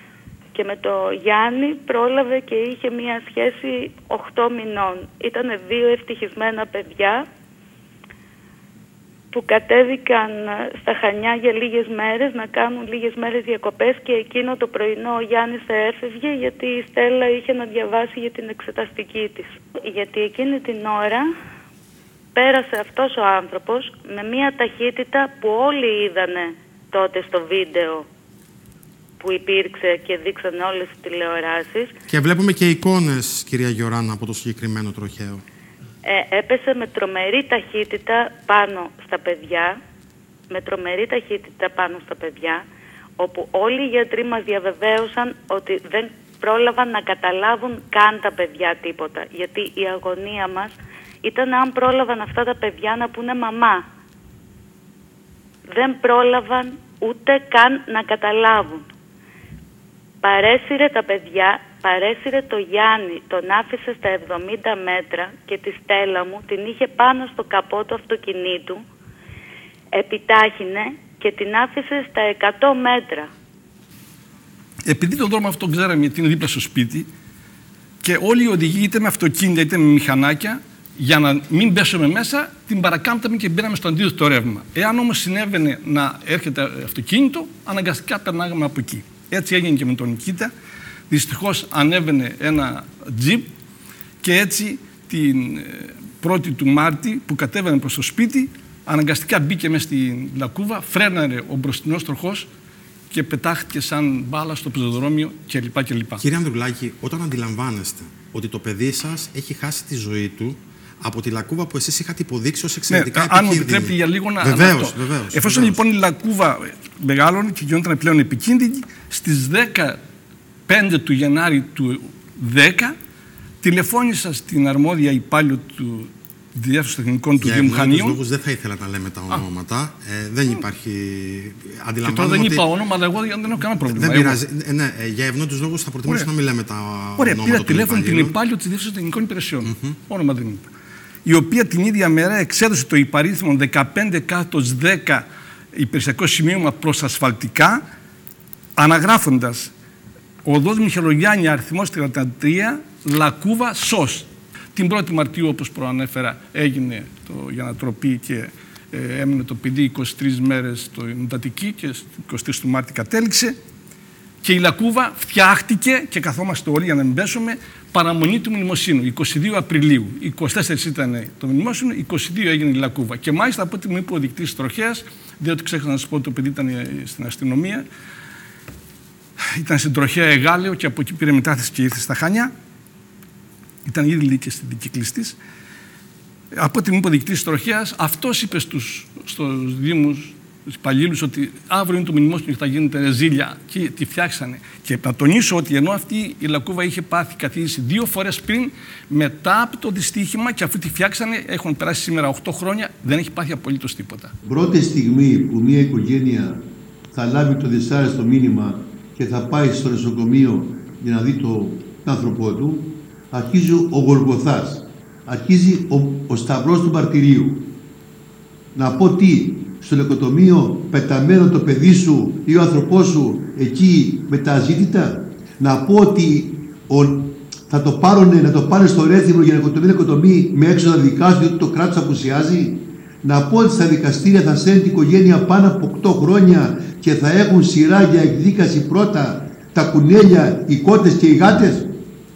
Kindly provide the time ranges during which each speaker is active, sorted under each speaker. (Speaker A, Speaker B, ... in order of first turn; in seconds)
Speaker A: 0.6-7.2, 9.3-21.2, 22.4-28.1, 29.2-31.9, 36.1-39.8, 40.5-42.6, 43.2-53.9, 55.7-58.9, 60.2-68.8, 69.9-73.3
Speaker B: 32.1-35.4, 106.2-115.8, 127.4-132.7, 133.7-138.3, 139.7-139.9
Speaker C: 74.9-77.1, 78.0-90.5, 91.1-93.5, 94.2-102.5, 103.1-106.3, 112.9-120.0, 120.7-123.0, 123.6-128.2, 132.1-134.4, 137.2-140.7, 141.3-145.2, 145.8-147.8, 148.8-149.7, 150.4-163.5, 164.4-177.9, 179.5-182.5, 183.8-185.4, 186.5-204.3
Speaker D: 204.4-206.6, 207.1-217.6, 218.7-241.9